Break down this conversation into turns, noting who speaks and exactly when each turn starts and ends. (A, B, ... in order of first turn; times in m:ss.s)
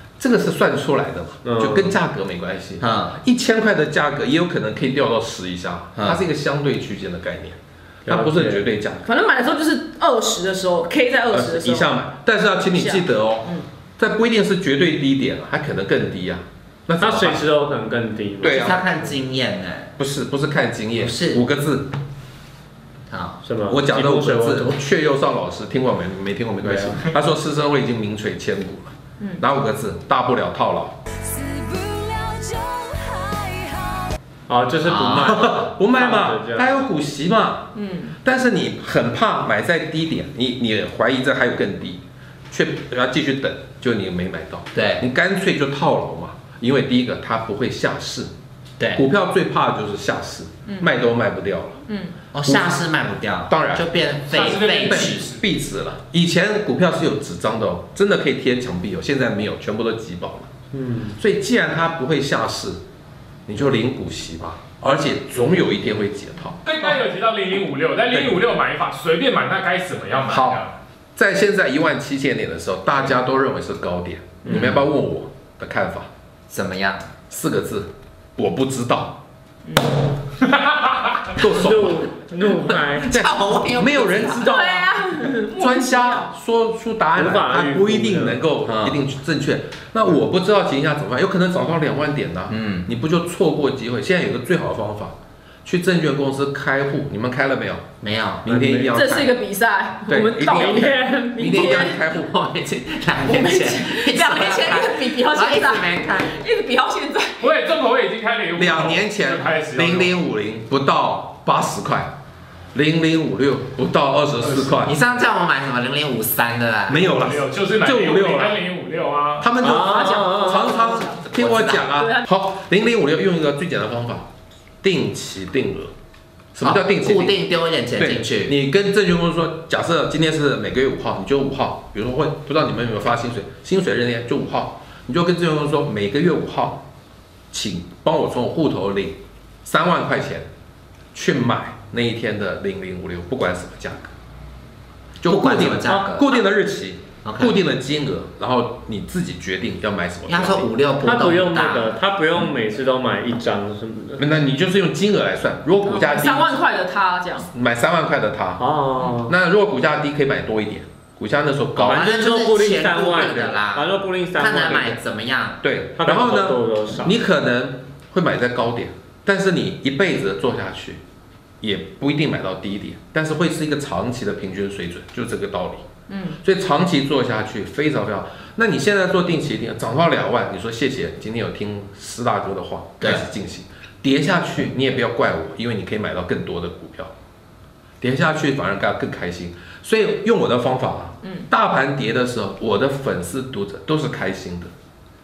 0:00.2-0:09.0 A
0:01.4-0:02.0 B
0:02.8-0:03.2 C
0:08.1-0:08.6 B
0:09.1-0:12.0 D
0:11.3-0:17.5 A
0:12.7-0:13.6 D
0:17.0-0:18.9 B
0:18.4-0:18.8 A
0:18.4-0:19.9 C
0:20.0-0:21.9 A
0:21.0-0:21.4 C
0:23.1-0:23.4 C
0:23.4-0:24.8 B
0:23.7-0:31.0 A
0:26.6-0:27.1 B
0:31.2-0:34.1 E
0:34.5-0:36.9 B
0:34.8-0:35.3 C
0:35.2-0:37.7 A
0:37.8-0:38.2 D
0:38.2-0:48.3 A
0:44.7-0:45.1 C
0:49.0-0:51.8 A
0:50.7-0:50.9 D
0:51.9-0:52.2 D
0:52.3-0:55.3 C
0:52.5-0:52.8 A
0:53.5-0:53.8 A
0:54.3-0:55.4 F
0:54.8-1:00.5 A
1:00.7-1:01.2 B
1:01.2-1:02.8 A
1:03.5-1:06.9 A
1:06.6-1:10.7 F
1:08.1-1:08.4 A
1:10.3-1:10.6 A
1:11.2-1:16.1 A
1:14.4-1:14.8 B
1:14.5-1:14.8 C
1:16.5-1:17.1 C
1:17.3-1:19.2 A
1:19.7-1:19.9 D
1:21.4-1:22.1 A
1:21.4-1:23.1 B
1:22.9-1:24.5 C
1:23.1-1:35.1 A
1:24.4-1:26.3 D
1:27.2-1:28.4 B
1:28.6-1:29.0 C
1:32.5-1:32.9 C
1:35.6-1:37.9 A
1:38.0-1:38.5 C
1:38.5-1:39.3 A
1:38.5-1:39.0 B
1:38.9-1:40.9 D
1:40.1-1:42.3 A
1:40.5-1:41.7 B
1:41.4-1:46.3 C
1:41.5-1:42.0 D
1:43.2-1:47.5 D
1:47.4-1:50.2 F
1:48.6-1:52.1 A
1:52.7-1:55.0 A
1:54.4-1:54.7 F
1:54.8-1:57.1 C
1:56.9-1:58.6 A
1:57.1-1:59.5 F
1:59.4-2:04.3 A
1:59.6-2:00.8 B
1:59.8-2:01.3 D
2:01.3-2:01.9 C
2:01.9-2:02.3 D
2:04.8-2:05.9 A
2:06.5-2:07.4 A
2:06.6-2:08.5 C
2:08.0-2:16.8 A
2:17.5-2:20.5 A
2:21.1-2:24.1 A
2:25.2-2:30.7 A
2:25.3-2:26.3 C
2:27.2-2:27.6 C
2:30.3-2:32.0 C
2:31.0-2:34.2 B
2:34.2-2:36.6 A
2:35.8-2:37.5 D
2:37.5-2:38.6 A
2:38.6-2:39.3 B
2:39.3-2:42.0 A
2:41.8-2:45.0 B
2:41.8-2:45.6 C
2:45.6-2:51.0 A
2:46.0-2:47.2 B
2:51.6-2:55.9 A
2:56.1-2:56.4 D
2:56.4-3:07.1 A
3:03.0-3:03.2 C
3:08.0-3:14.7 A